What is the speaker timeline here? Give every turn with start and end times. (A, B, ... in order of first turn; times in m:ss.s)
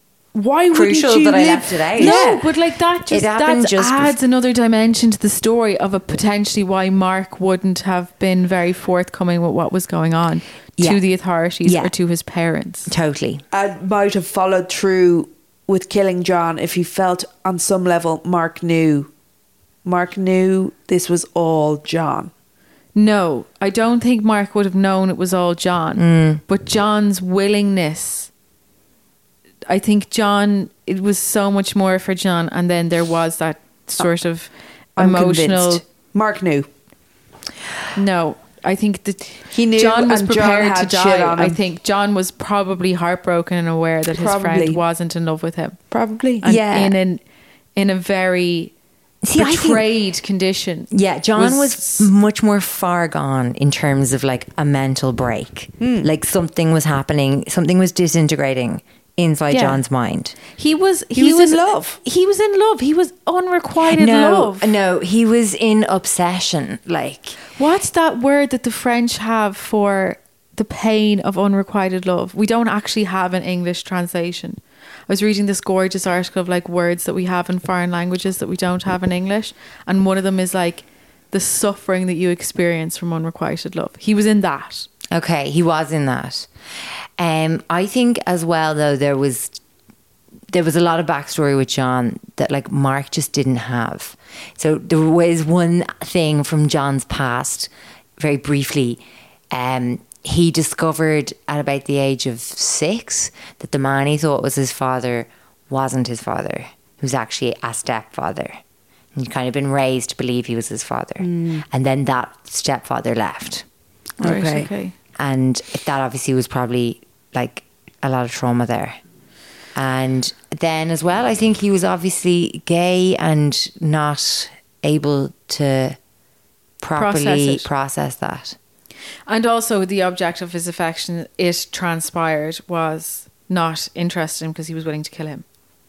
0:00.3-0:02.4 A
0:00.7-0:02.4 B
0:02.0-0:12.9 C
0:03.1-0:04.2 B
0:10.8-0:11.0 B
0:11.6-0:11.9 B
0:12.9-0:13.4 B
0:13.5-0:19.1 A
0:19.8-0:22.3 A
0:22.9-0:28.3 C
0:26.0-0:26.4 B
0:29.7-0:35.8 C
0:35.0-0:36.7 A
0:37.9-0:45.8 C
0:39.5-0:41.6 A
0:44.1-0:44.8 A
0:45.9-0:46.6 A
0:46.4-0:47.2 C
0:46.5-0:46.9 B
0:47.8-0:48.7 C
0:49.2-0:49.9 B
0:49.3-0:52.1 C
0:50.9-1:00.4 B
0:55.8-0:56.1 A
0:59.5-0:59.8 C
1:00.6-1:04.7 C
1:01.1-1:02.0 A
1:03.8-1:07.4 B
1:07.6-1:24.9 C
1:25.1-1:26.5 B
1:27.2-1:29.6 B
1:30.5-1:48.6 B
1:49.1-1:53.6 B
1:51.2-1:51.6 A
1:54.2-1:54.9 C
1:54.2-1:54.7 A
1:55.2-1:59.0 B
1:59.7-2:06.0 B
2:06.8-2:08.6 B
2:07.0-2:07.7 C
2:09.3-2:15.4 C